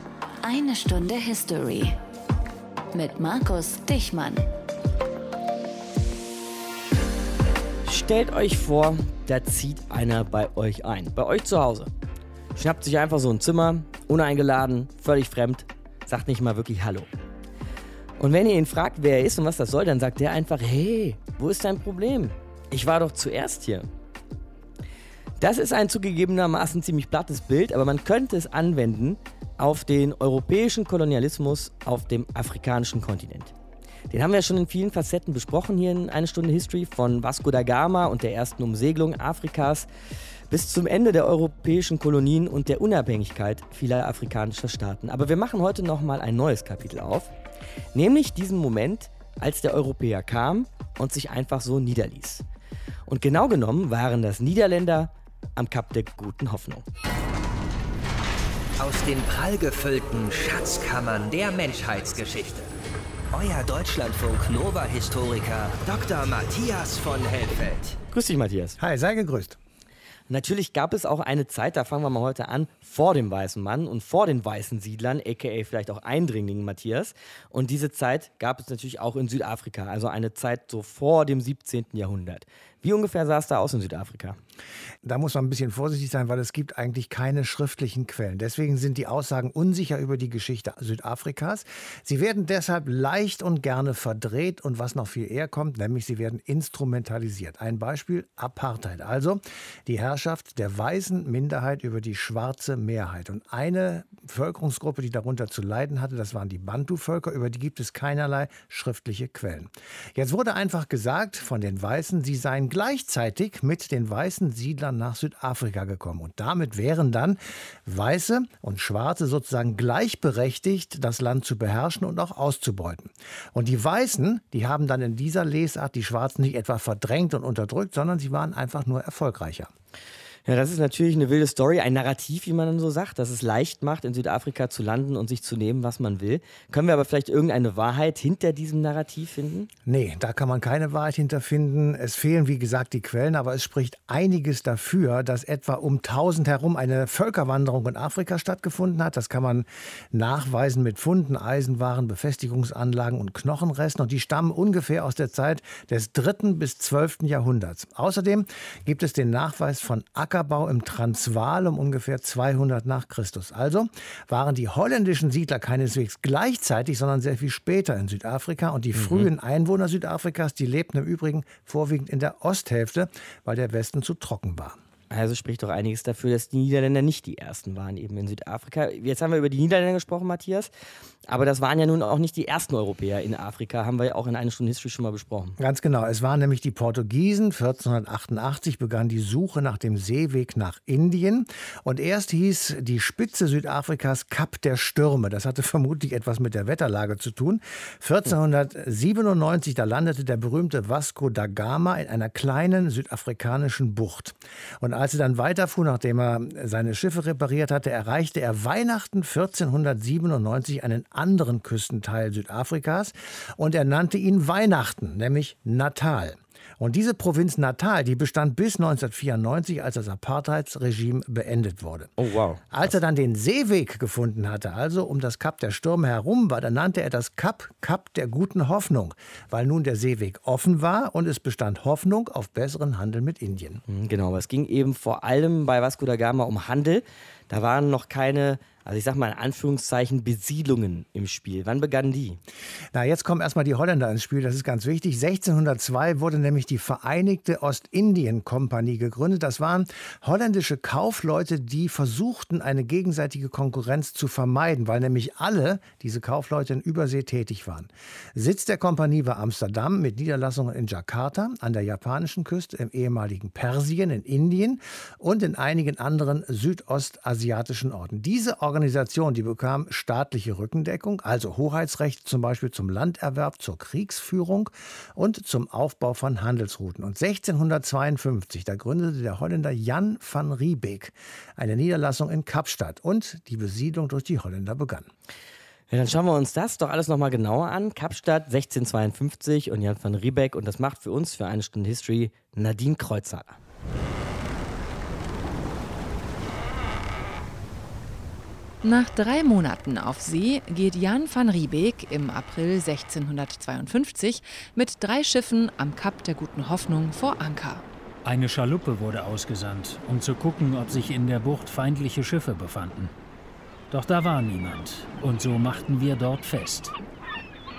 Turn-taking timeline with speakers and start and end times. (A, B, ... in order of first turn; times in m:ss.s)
0:00.4-0:02.0 A
0:02.9-0:04.5 A
0:07.9-0:11.9 B
0:12.5-0:17.1 B
0:18.2-0:23.9 B
0:25.4-0:33.5 B
0:34.1-0:39.9 B
0:40.5-0:47.3 B
0:47.9-0:52.4 B
0:53.1-0:56.9 B
0:58.8-1:02.7 C
1:03.3-1:08.0 C
1:08.1-1:08.8 B
1:08.8-1:09.6 D
1:10.3-1:24.4 B
1:25.0-2:09.7 D
2:10.5-2:19.7 B
2:19.9-2:54.8 D
2:49.0-2:49.3 B
2:55.1-3:00.7 B
3:01.3-3:05.6 B
3:05.6-3:42.1 D
3:42.2-3:42.7 B
3:42.7-3:53.8 D
3:53.9-4:02.4 B
4:02.9-4:45.1 D
4:45.9-4:53.6 B
4:58.8-5:07.8 E
5:08.2-5:13.1 F
5:13.9-5:17.0 F